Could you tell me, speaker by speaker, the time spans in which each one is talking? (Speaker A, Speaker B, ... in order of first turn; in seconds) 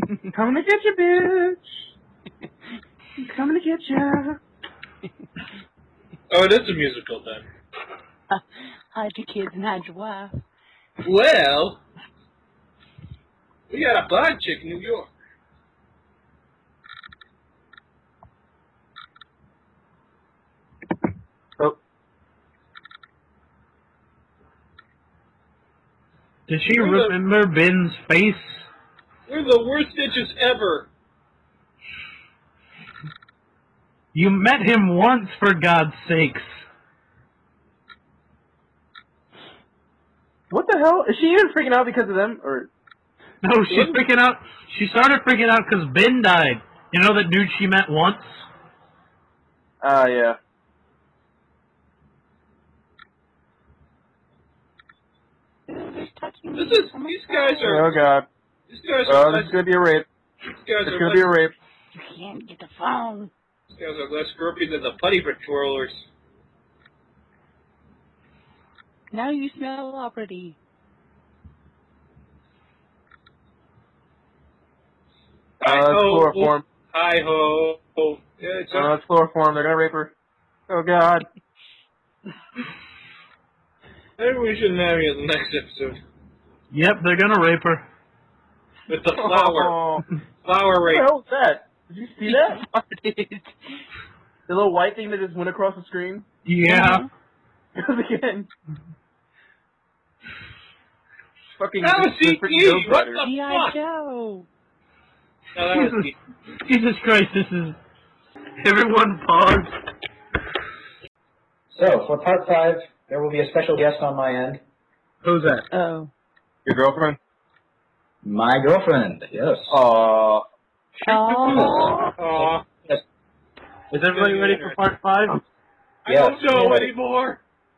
Speaker A: 0.3-1.6, 3.2-4.4, 40.5-42.7, 49.8-50.4, 57.6-58.2, 59.0-60.0, 60.8-61.5, 75.6-76.6, 78.7-80.1, 80.7-81.3, 89.1-90.0, 90.8-92.7, 94.5-96.2, 97.8-98.5, 101.6-103.2, 116.6-117.2, 119.7-120.4
Speaker B: 6.3-7.5, 11.0-11.8, 13.7-15.1, 26.7-27.1, 29.3-30.9, 56.5-58.0, 58.7-59.6, 60.5-61.3, 63.7-66.0, 75.6-78.9, 84.2-86.0, 88.9-89.7, 90.4-91.1, 101.8-103.8, 105.5-106.1, 122.2-122.6, 124.1-124.8, 126.0-127.4
Speaker C: 8.3-10.4, 55.7-57.8, 62.0-63.3, 69.1-70.6, 92.3-93.5, 96.7-97.1, 103.2-104.5, 115.7-116.1, 121.0-121.9
Speaker D: 26.5-28.7, 34.1-36.5, 43.4-48.4, 86.7-87.8, 96.4-97.0, 105.7-106.1, 106.6-107.8, 108.6-109.7, 115.2-115.7, 123.9-125.4
Speaker E: 111.7-114.6, 118.2-119.8, 121.4-123.0, 126.0-126.9